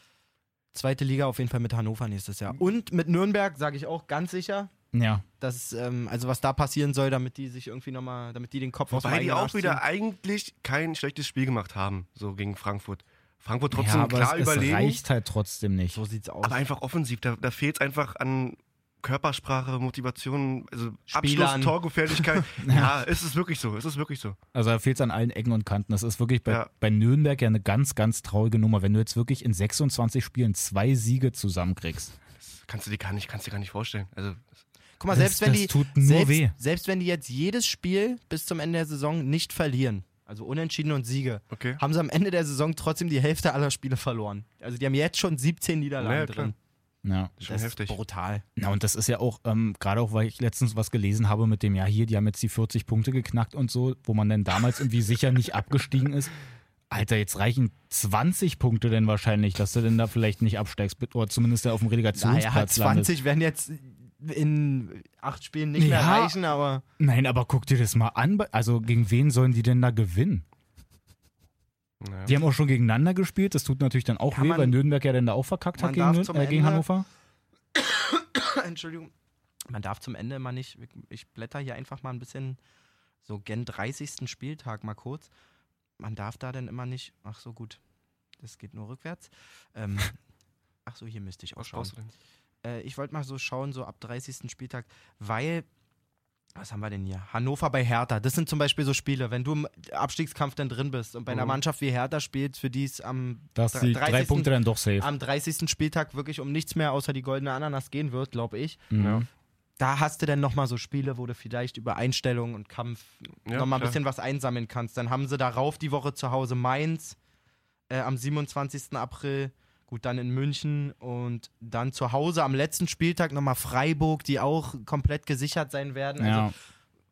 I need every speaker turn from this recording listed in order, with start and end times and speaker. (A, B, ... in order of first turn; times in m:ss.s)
0:00.7-0:04.7 A
0:04.9-0:05.2 B
0:05.4-0:09.8 A
0:08.9-0:15.0 C
0:13.7-0:16.0 B
0:15.9-0:16.6 A
0:16.4-0:24.4 C
0:21.1-0:22.2 A
0:22.6-0:22.9 B
0:24.5-0:32.1 B
0:32.4-0:34.4 C
0:35.0-0:46.5 A
0:35.1-0:36.5 B
0:41.5-0:41.8 C
0:46.0-0:46.5 C
0:47.0-0:47.3 B
0:47.4-0:48.0 C
0:47.4-0:48.4 A
0:48.6-0:56.3 B
0:56.9-1:03.1 B
1:02.1-1:06.8 A
1:05.8-1:06.4 B
1:07.0-1:10.4 B
1:12.0-1:12.3 C
1:12.2-1:17.1 B
1:14.3-1:14.8 A
1:15.8-1:16.8 A
1:17.8-1:19.1 A
1:19.7-1:22.6 A
1:23.2-1:25.3 A
1:26.0-1:27.8 A
1:28.4-1:30.2 A
1:30.8-1:31.9 A
1:31.6-1:32.1 C
1:32.6-1:35.6 A
1:36.6-1:48.8 A
1:41.3-1:41.6 C
1:43.6-1:45.1 B
1:48.9-1:49.3 B
1:49.0-1:49.2 C
1:49.8-1:57.2 A
1:53.5-1:54.0 C
1:57.9-2:06.5 A
2:06.2-2:06.5 B